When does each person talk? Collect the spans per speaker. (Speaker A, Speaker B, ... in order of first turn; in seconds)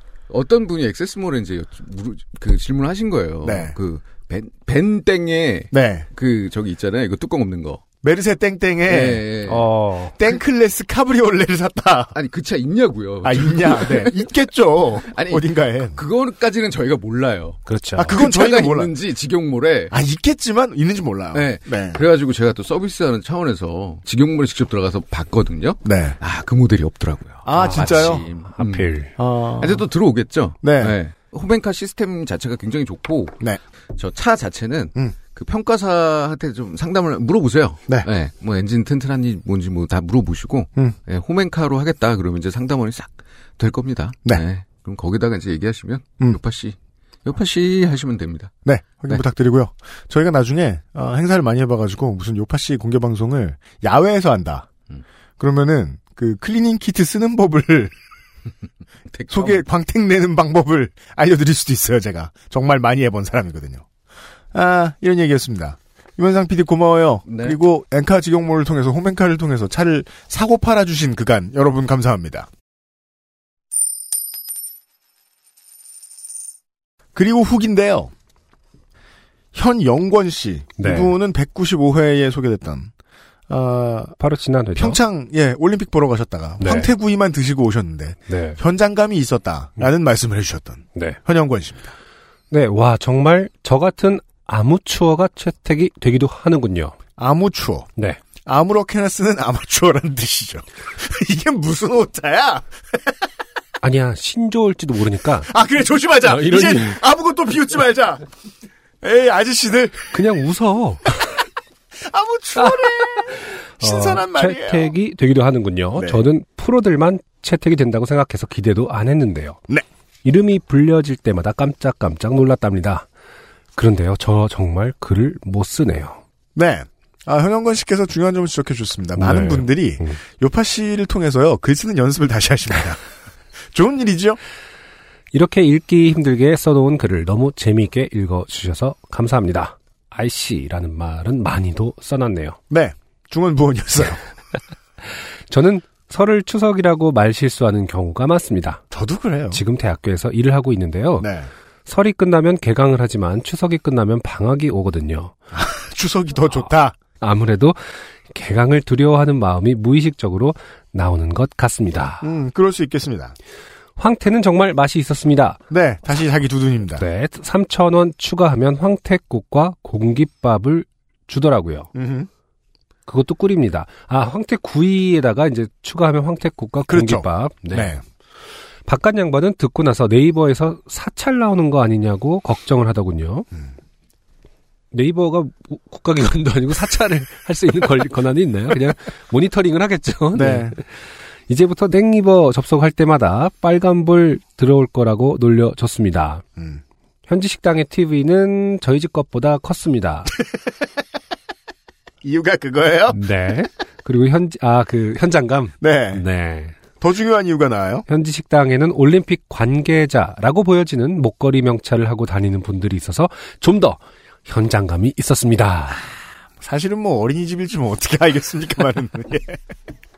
Speaker A: 0.3-7.8, 8.9-9.7, 12.1-14.3, 15.1-19.9, 21.3-33.4, 34.0-48.5, 59.1-59.6, 67.3-67.6
Speaker B: 3.4-3.8, 5.7-6.1, 8.0-9.3, 10.2-12.2, 13.2-16.0, 18.0-18.9, 19.9-22.0, 25.8-26.2, 27.4-28.3, 29.2-29.9, 30.6-31.0, 48.6-54.7, 55.4-57.9, 59.3-63.9, 64.5-72.5, 77.2-78.1, 79.5-82.9, 83.5-84.2, 84.8-92.0, 97.2-97.9, 98.4-103.0, 105.5-108.3, 109.0-110.2, 112.0-114.9, 116.0-116.2, 126.5-133.0, 133.7-134.4, 142.7-144.2, 148.9-149.6, 151.2-151.5, 155.5-157.0, 162.2-163.4, 165.7-167.0, 171.9-172.3, 176.9-178.0, 190.3-190.8, 196.6-196.8, 202.2-203.2, 205.8-206.2, 207.0-208.1, 216.6-219.6
Speaker C: 9.5-10.1, 17.7-18.1, 27.6-29.1, 80.8-81.1, 84.2-85.0, 86.6-86.9, 88.3-88.6, 92.5-97.0, 103.8-105.5, 106.2-107.0, 110.1-111.2, 112.6-119.6, 120.2-123.1, 123.8-126.2, 129.2-130.2, 135.3-142.6, 145.5-148.8, 149.5-151.3, 151.9-155.3, 157.2-162.3, 164.0-165.6, 167.0-171.9, 173.1-177.9, 178.9-183.5, 184.9-196.4, 197.3-200.3, 203.1-206.8, 208.1-216.0